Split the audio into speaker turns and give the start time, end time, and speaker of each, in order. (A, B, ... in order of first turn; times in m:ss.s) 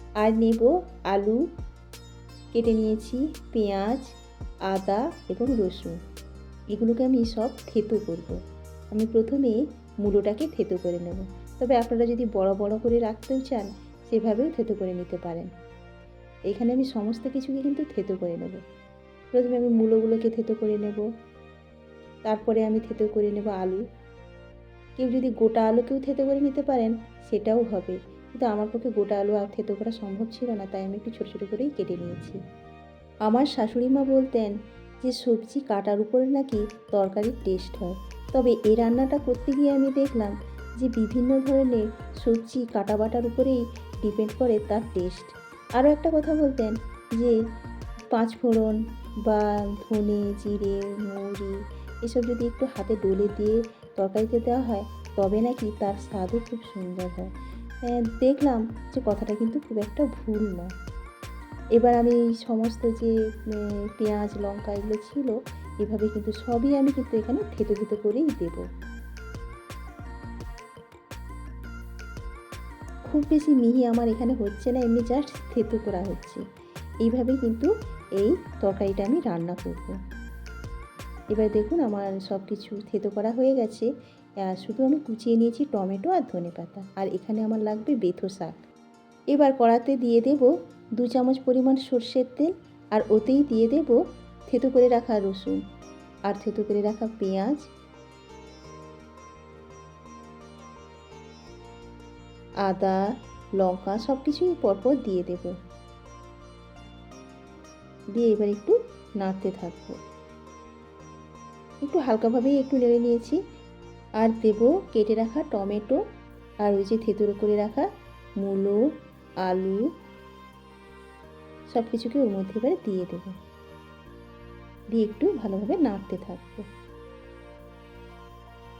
0:00.2-0:01.4 A
0:02.5-0:04.1 A
0:04.7-0:06.0 A
0:06.7-0:08.4 A
0:08.9-0:15.5 A
0:16.5-0:18.6 A
0:19.3-0:21.0 A
0:22.2-0:23.8 A
0:25.0-0:32.4 A
0:33.2-0:47.4 A
0:48.1-0:57.3 A
0:57.8-1:00.7 A
1:01.8-1:08.6 A
1:13.1-1:16.4 A
1:17.0-1:19.9 A
1:21.3-1:23.9 A
1:24.4-1:28.6 A
1:29.3-1:35.6 A
1:36.3-1:37.6 A
1:42.6-1:45.5 A
1:48.1-1:50.0 A
1:51.8-1:53.4 A
1:54.2-1:56.0 A
1:56.6-1:57.8 A
1:58.4-1:58.8 A
1:59.4-1:59.8 A
2:01.7-2:03.3 A
2:04.9-2:06.6 A